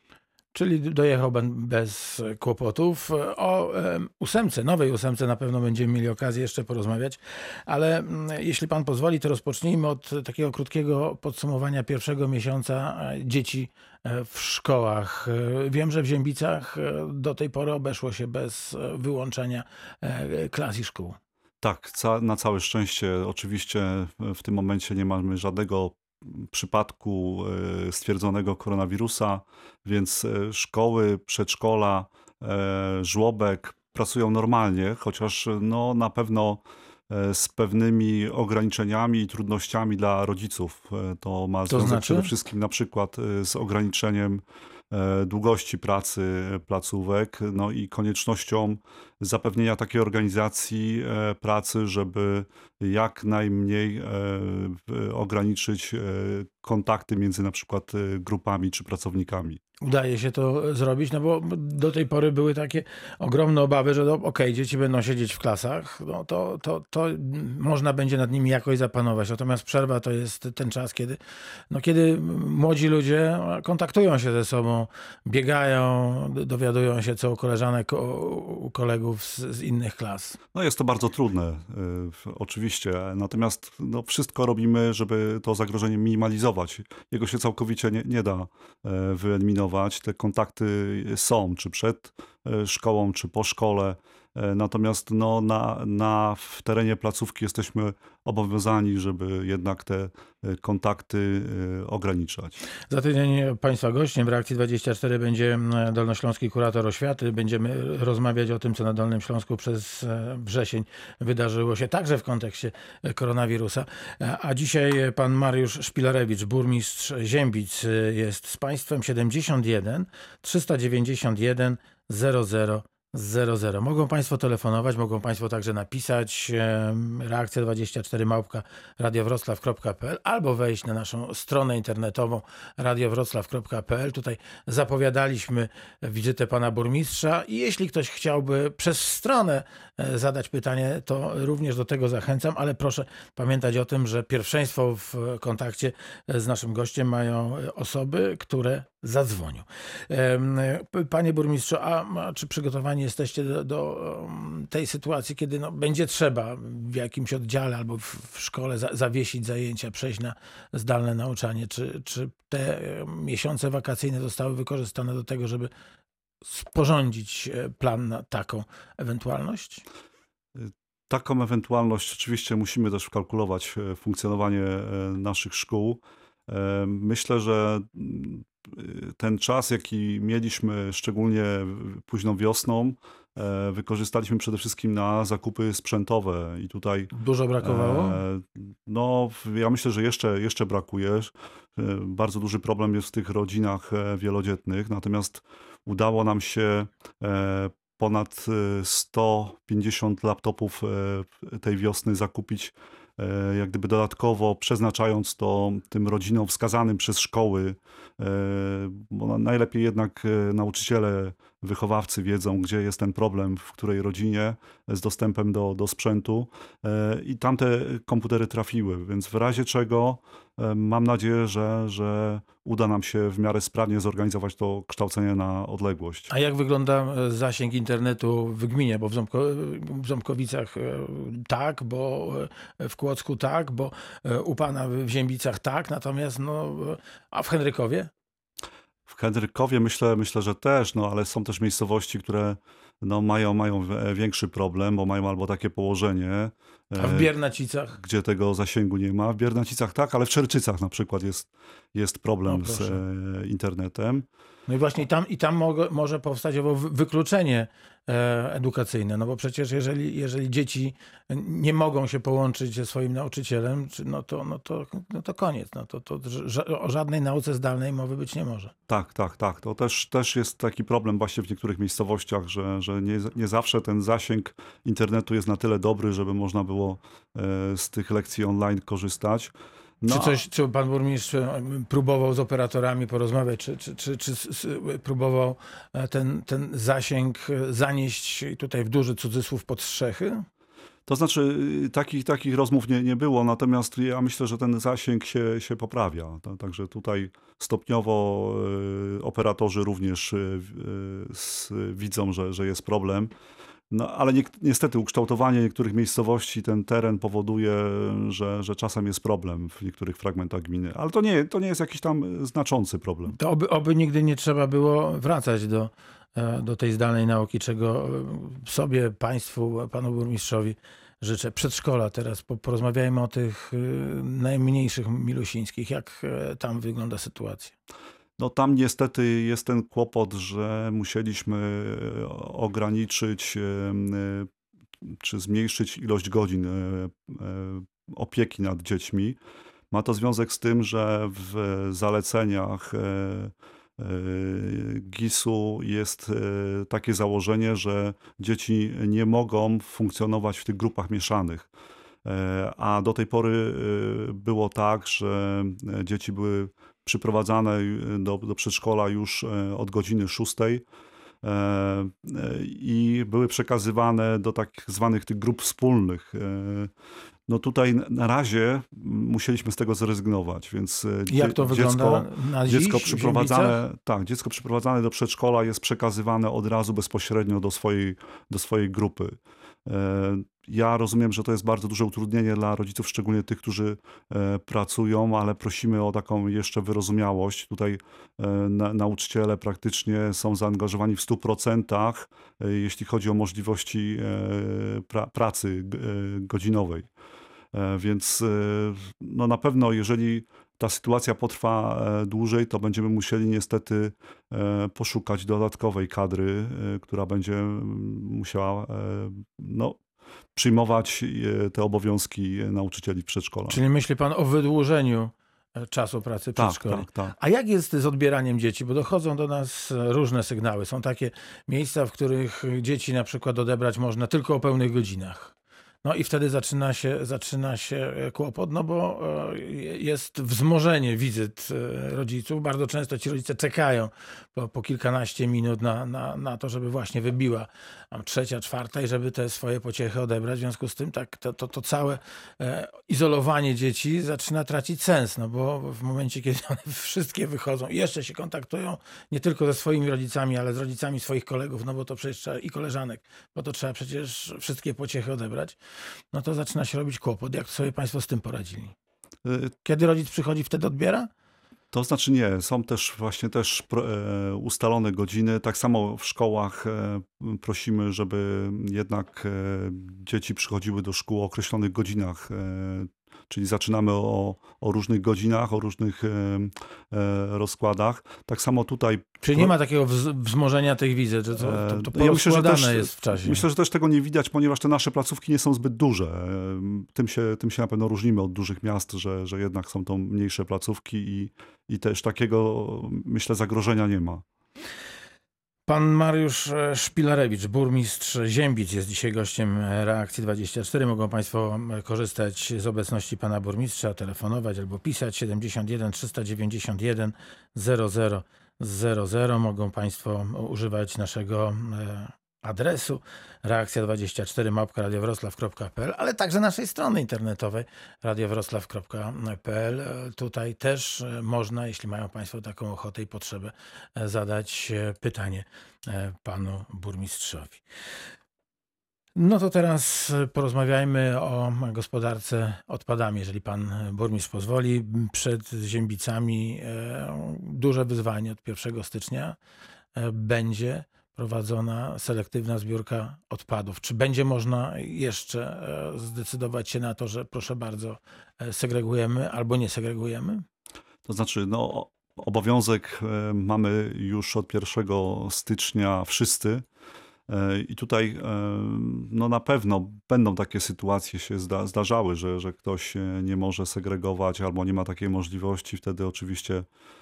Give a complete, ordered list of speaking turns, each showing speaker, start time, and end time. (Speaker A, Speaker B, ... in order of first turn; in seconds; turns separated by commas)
Speaker A: 0.5-21.2, Speaker B: 21.6-59.6, Speaker A: 41.7-42.3, Speaker A: 59.8-71.2, Speaker A: 71.7-80.4, Speaker B: 80.5-102.6, Speaker A: 102.9-165.7, Speaker A: 166.5-169.8, Speaker B: 170.6-226.3, Speaker A: 187.1-188.2, Speaker A: 226.3-238.1, Speaker B: 239.1-247.3, Speaker A: 247.0-248.0, Speaker B: 248.0-254.3, Speaker A: 252.5-253.0, Speaker A: 254.7-268.7, Speaker B: 268.9-280.4, Speaker A: 280.1-290.5, Speaker B: 291.1-303.3, Speaker B: 303.9-313.4, Speaker A: 313.3-327.8, Speaker B: 328.4-334.5, Speaker B: 335.0-339.4, Speaker B: 339.9-351.7, Speaker B: 352.2-360.9, Speaker B: 361.4-366.9, Speaker B: 367.5-397.1, Speaker A: 371.3-373.8, Speaker B: 397.7-410.0, Speaker B: 410.6-413.8, Speaker A: 413.7-455.8, Speaker B: 416.6-417.3, Speaker A: 456.3-458.9, Speaker B: 459.4-459.7, Speaker A: 459.9-461.3, Speaker B: 461.9-479.7, Speaker A: 479.4-483.6, Speaker B: 481.6-494.4, Speaker A: 495.9-527.8, Speaker A: 529.4-539.6, Speaker A: 540.1-550.6, Speaker B: 551.3-556.9, Speaker B: 557.5-566.9